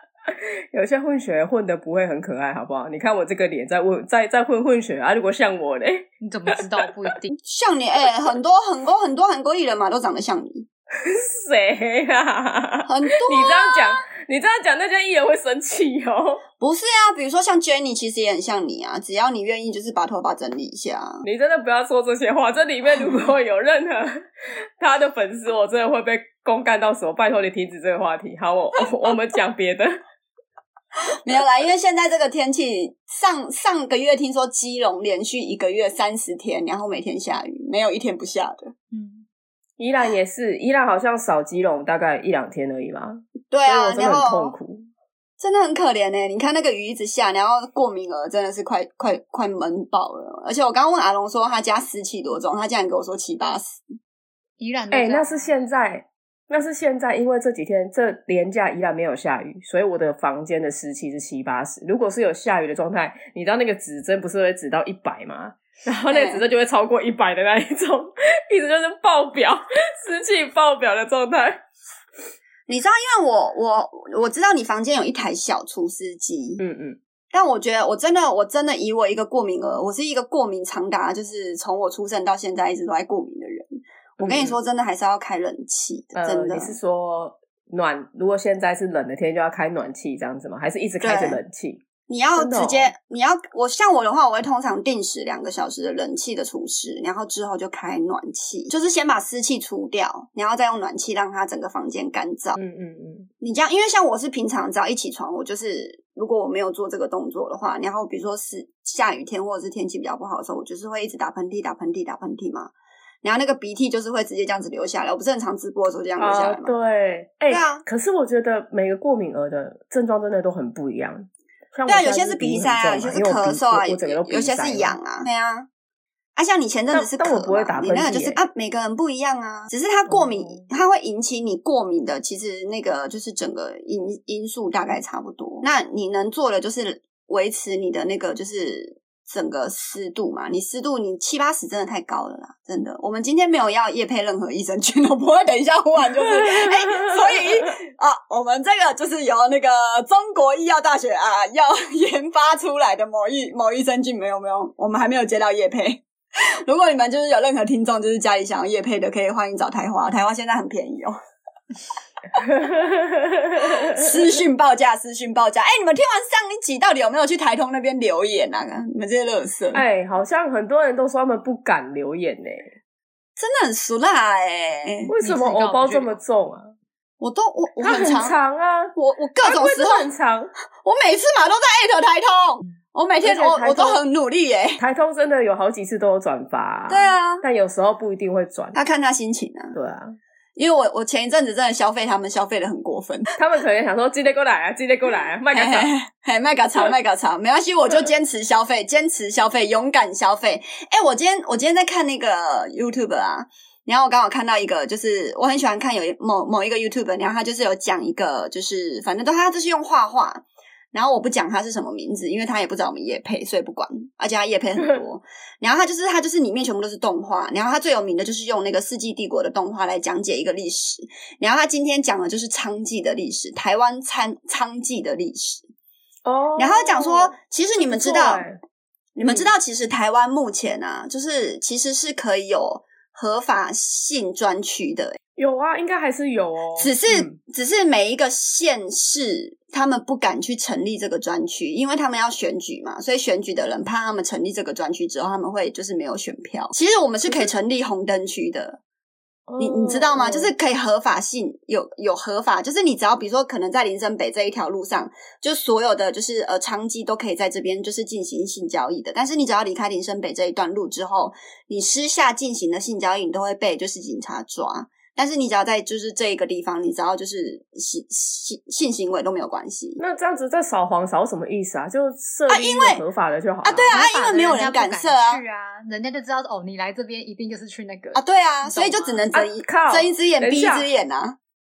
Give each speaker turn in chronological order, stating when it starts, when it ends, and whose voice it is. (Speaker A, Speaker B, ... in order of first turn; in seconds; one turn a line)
Speaker A: 0.7-6.6
Speaker B: 6.2-7.3
Speaker C: 7.4-10.7
Speaker A: 11.0-16.4
Speaker C: 12.8-14.0
Speaker C: 16.6-21.2
Speaker A: 21.2-29.9
Speaker C: 31.2-38.7
Speaker B: 38.9-39.2
Speaker A: 39.8-44.9
Speaker C: 43.5-44.5
Speaker C: 45.4-53.8
Speaker B: 54.6-55.5
Speaker A: 54.9-71.6
Speaker C: 66.1-66.4
Speaker C: 72.7-76.6
Speaker A: 76.6-77.0
Speaker C: 77.3-83.7
Speaker A: 84.2-84.5
Speaker C: 84.2-86.8
Speaker A: 86.2-91.8
Speaker C: 91.0-91.4
Speaker C: 92.1-102.6
Speaker A: 92.3-92.9
Speaker A: 102.6-103.3
Speaker C: 103.4-112.7
Speaker C: 113.2-116.7
Speaker A: 116.2-125.0
Speaker C: 117.5-117.8
Speaker C: 121.9-125.7
Speaker C: 126.3-161.2
Speaker A: 126.9-128.4
Speaker A: 130.1-130.7
Speaker A: 146.6-147.2
Speaker A: 162.3-164.1
Speaker C: 163.6-169.8
Speaker A: 169.7-172.7
Speaker C: 173.4-175.1
Speaker A: 175.1-176.7
Speaker B: 175.2-176.2
Speaker C: 177.2-178.4
Speaker A: 177.8-180.5
Speaker C: 179.0-180.1
Speaker C: 180.8-184.8
Speaker A: 183.2-184.0
Speaker A: 184.8-188.8
Speaker C: 186.9-187.4
Speaker C: 188.7-189.7
Speaker A: 189.7-190.2
Speaker C: 190.6-193.3
Speaker A: 193.3-195.9
Speaker C: 195.5-225.7
Speaker A: 226.2-228.6
Speaker C: 226.6-228.5
Speaker C: 229.2-235.2
Speaker A: 229.2-229.5
Speaker A: 235.4-237.3
Speaker C: 236.8-248.8
Speaker A: 249.5-250.5
Speaker C: 249.6-270.0
Speaker A: 270.0-274.0
Speaker C: 272.5-273.0
Speaker C: 273.6-275.4
Speaker B: 273.8-279.2
Speaker C: 278.1-281.4
Speaker A: 279.3-280.9